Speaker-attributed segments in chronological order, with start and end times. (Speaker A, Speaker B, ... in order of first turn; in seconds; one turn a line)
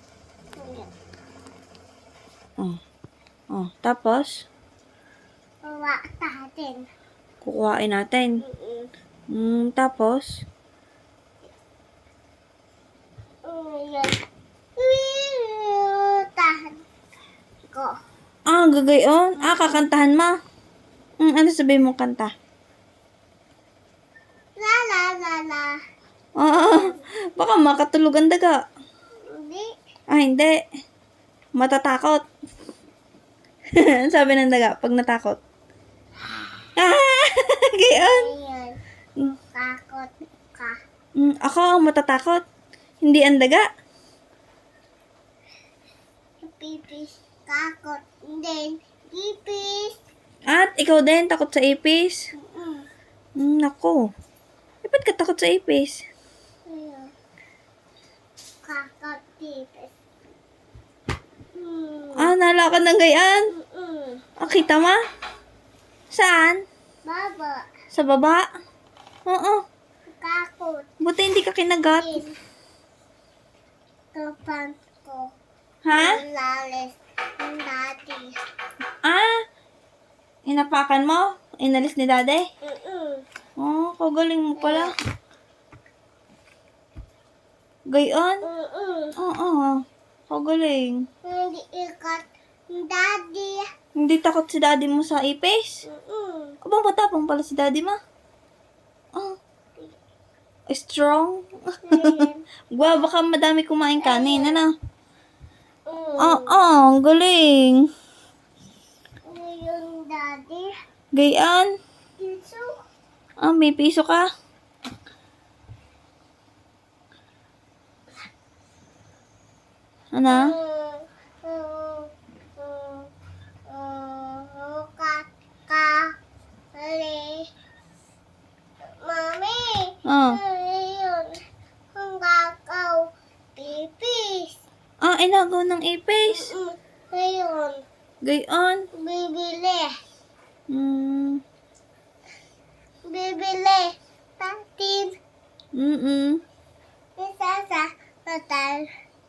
Speaker A: 0.6-0.9
Speaker B: 3.5-4.4
Speaker A: 5.6-6.9
Speaker B: 7.4-8.4
Speaker A: 8.4-8.9
Speaker B: 9.3-10.4
Speaker A: 13.4-14.2
Speaker A: 14.8-16.8
Speaker A: 17.7-17.9
Speaker B: 18.5-20.4
Speaker B: 21.2-22.3
Speaker A: 24.6-25.8
Speaker B: 26.4-28.6
Speaker A: 26.5-27.0
Speaker A: 29.2-29.7
Speaker B: 30.1-30.6
Speaker B: 31.6-32.2
Speaker B: 33.7-35.4
Speaker B: 36.8-38.3
Speaker A: 38.0-38.8
Speaker A: 39.5-40.8
Speaker B: 41.2-42.4
Speaker B: 43.0-43.7
Speaker A: 46.4-49.9
Speaker B: 50.5-52.3
Speaker A: 52.4-52.9
Speaker B: 53.4-54.0
Speaker B: 54.8-56.0
Speaker A: 56.7-57.1
Speaker A: 58.6-59.9
Speaker A: 61.5-62.3
Speaker B: 62.1-63.5
Speaker A: 63.5-64.2
Speaker B: 64.4-65.0
Speaker B: 66.1-66.6
Speaker A: 67.0-67.7
Speaker B: 67.9-68.5
Speaker B: 69.3-69.6
Speaker A: 70.1-70.9
Speaker B: 71.0-72.1
Speaker A: 71.9-72.3
Speaker A: 74.1-75.3
Speaker B: 75.8-76.2
Speaker A: 75.9-78.3
Speaker B: 79.0-79.4
Speaker B: 80.5-82.5
Speaker A: 82.6-83.2
Speaker B: 83.6-84.9
Speaker A: 84.6-84.9
Speaker B: 87.9-88.5
Speaker A: 88.4-89.1
Speaker B: 89.2-91.1
Speaker A: 91.2-93.7
Speaker B: 94.0-95.8
Speaker A: 95.8-96.6
Speaker B: 96.6-98.0
Speaker B: 100.7-104.7
Speaker A: 101.9-102.4
Speaker A: 104.0-104.6
Speaker A: 105.9-106.6
Speaker B: 106.2-107.9
Speaker A: 109.2-110.7
Speaker B: 111.1-111.7
Speaker A: 112.2-112.8
Speaker B: 113.4-114.2
Speaker B: 120.1-120.5
Speaker A: 120.3-123.1
Speaker A: 123.7-126.1
Speaker A: 126.7-127.5
Speaker A: 128.9-131.4
Speaker B: 130.1-130.4
Speaker A: 131.9-133.0
Speaker A: 133.6-134.6
Speaker B: 135.0-136.5
Speaker A: 136.3-137.8
Speaker B: 138.2-138.9
Speaker A: 138.9-139.9
Speaker B: 140.7-141.4
Speaker A: 143.1-145.1
Speaker B: 145.8-146.4
Speaker A: 147.2-148.9